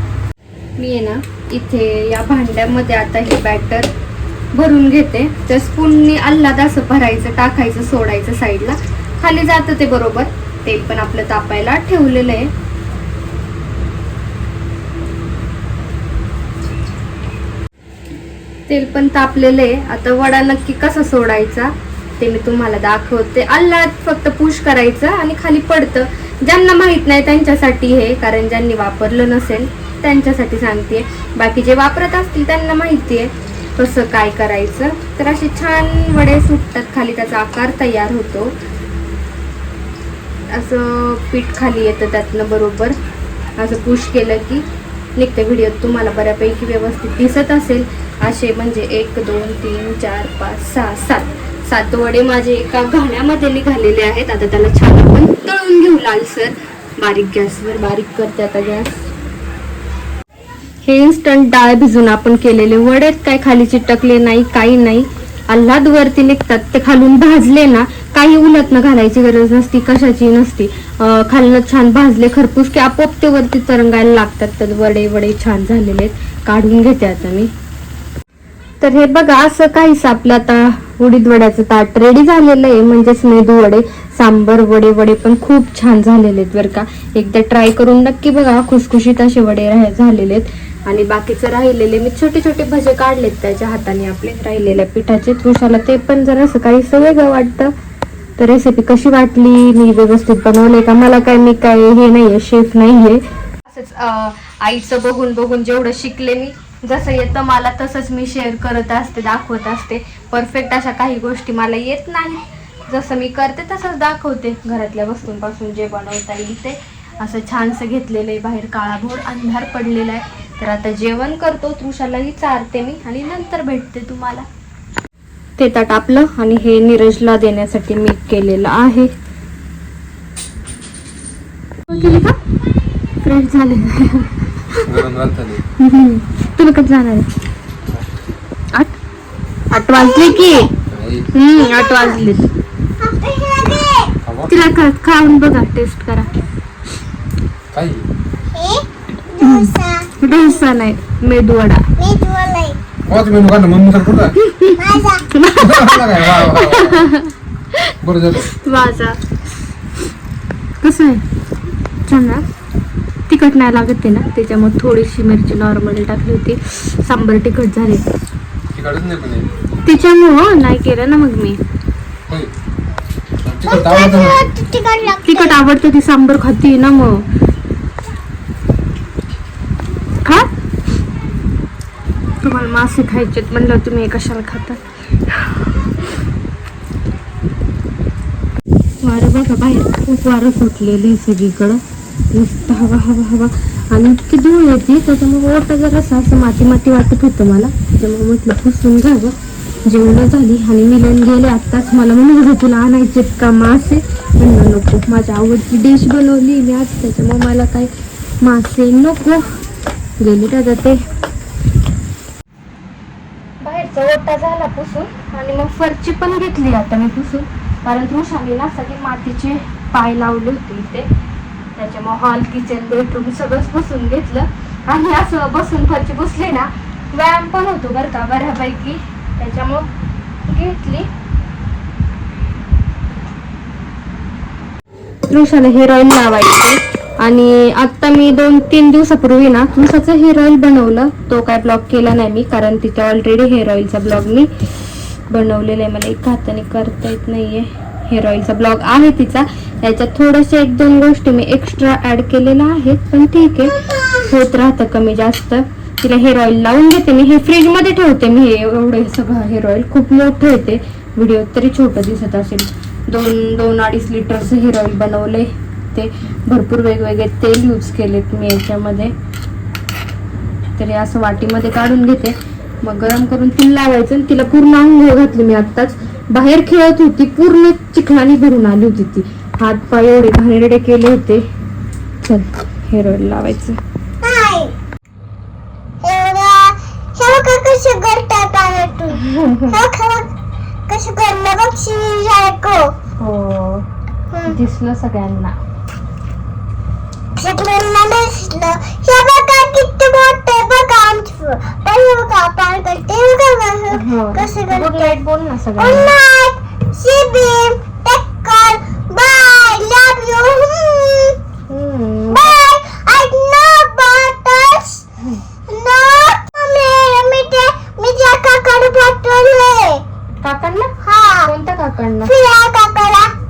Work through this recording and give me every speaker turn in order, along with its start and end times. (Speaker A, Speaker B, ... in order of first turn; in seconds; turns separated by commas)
Speaker A: 0.8-3.9, Speaker A: 4.5-12.5, Speaker A: 18.7-38.5, Speaker A: 40.5-43.0, Speaker A: 43.6-44.6, Speaker A: 45.2-58.9, Speaker A: 60.8-77.5, Speaker A: 78.8-97.7, Speaker A: 98.4-124.5, Speaker A: 125.6-129.1, Speaker A: 131.9-132.4, Speaker A: 133.2-134.9, Speaker B: 134.8-135.6, Speaker A: 135.8-137.3, Speaker A: 139.7-140.7, Speaker C: 139.7-140.7, Speaker B: 140.9-141.3, Speaker A: 141.3-142.5, Speaker C: 141.5-142.2, Speaker C: 143.0-144.1, Speaker B: 144.2-144.5, Speaker A: 144.5-146.3, Speaker B: 147.7-148.0, Speaker C: 148.5-150.6, Speaker A: 149.4-151.8, Speaker C: 152.0-152.8, Speaker B: 153.1-154.4, Speaker A: 154.4-157.9, Speaker C: 154.8-155.3, Speaker B: 155.6-157.1, Speaker B: 158.0-158.5, Speaker A: 158.4-159.2, Speaker A: 160.8-161.2, Speaker A: 162.1-162.5, Speaker A: 163.3-168.0, Speaker B: 168.7-169.5, Speaker A: 169.8-171.6, Speaker B: 173.4-174.4, Speaker C: 173.6-175.6, Speaker A: 175.2-177.2, Speaker A: 180.2-180.5, Speaker A: 182.4-184.8, Speaker A: 185.4-186.0, Speaker A: 189.0-191.8, Speaker A: 192.3-209.5, Speaker A: 210.2-211.0, Speaker A: 213.6-221.1, Speaker A: 221.8-229.9, Speaker A: 230.5-231.1, Speaker A: 235.3-244.5, Speaker A: 245.3-253.7, Speaker A: 254.3-269.1, Speaker A: 270.8-281.5, Speaker A: 282.2-283.8, Speaker C: 284.2-284.7, Speaker C: 286.0-290.3, Speaker A: 289.2-289.8, Speaker C: 290.9-292.9, Speaker A: 293.2-293.9, Speaker C: 294.3-294.6, Speaker A: 294.5-295.6, Speaker C: 297.4-305.1, Speaker A: 303.9-306.1, Speaker C: 305.8-311.4, Speaker A: 311.7-312.5, Speaker C: 312.3-315.0, Speaker C: 315.7-320.0, Speaker A: 320.4-320.9, Speaker C: 321.0-321.5, Speaker A: 321.4-322.3, Speaker C: 322.2-323.3